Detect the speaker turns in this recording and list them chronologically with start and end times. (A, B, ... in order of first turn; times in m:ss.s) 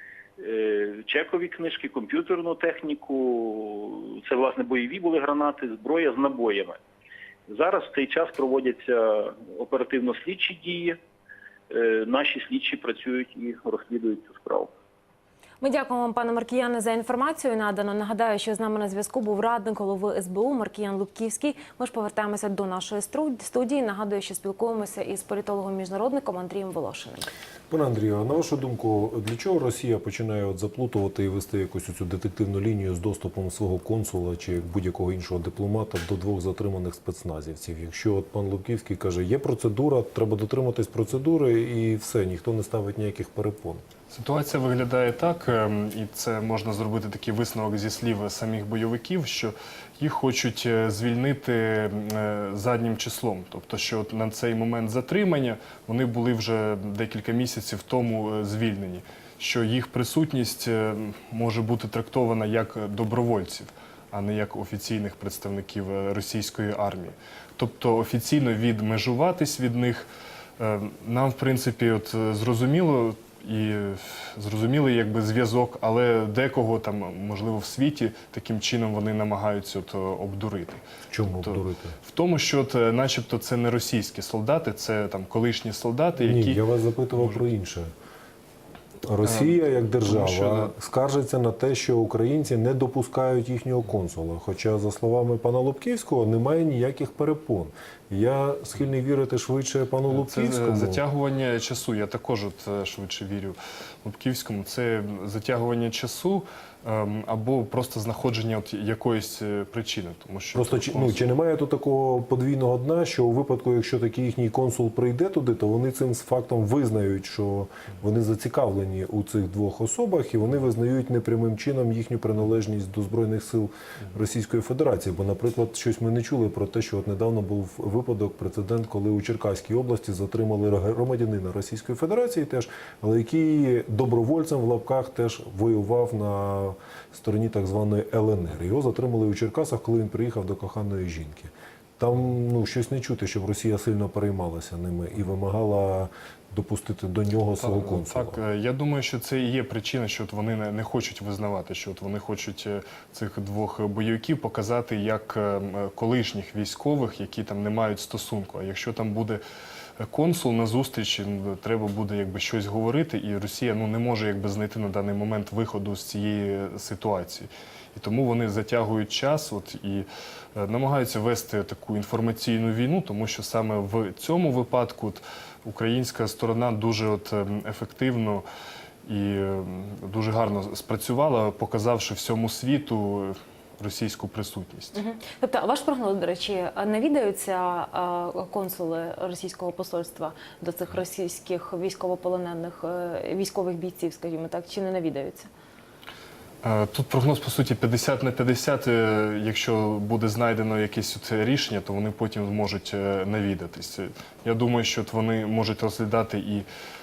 0:00.4-0:06.8 A
0:07.5-0:11.0 A
0:11.7-0:14.7 A
0:15.6-0:27.3 B
0:27.7-0:43.8 C
0:44.1-1:10.1 D
1:10.6-1:27.5 D
1:21.1-1:22.0 C
1:26.2-1:27.9 C
1:29.0-1:41.0 C
1:29.2-1:30.7 D
1:40.1-1:51.3 D
1:50.5-2:28.4 C
2:27.6-2:39.4 D
2:40.0-2:58.4 D
2:59.0-3:05.0 D
3:04.9-3:15.5 B
3:16.6-3:26.6 D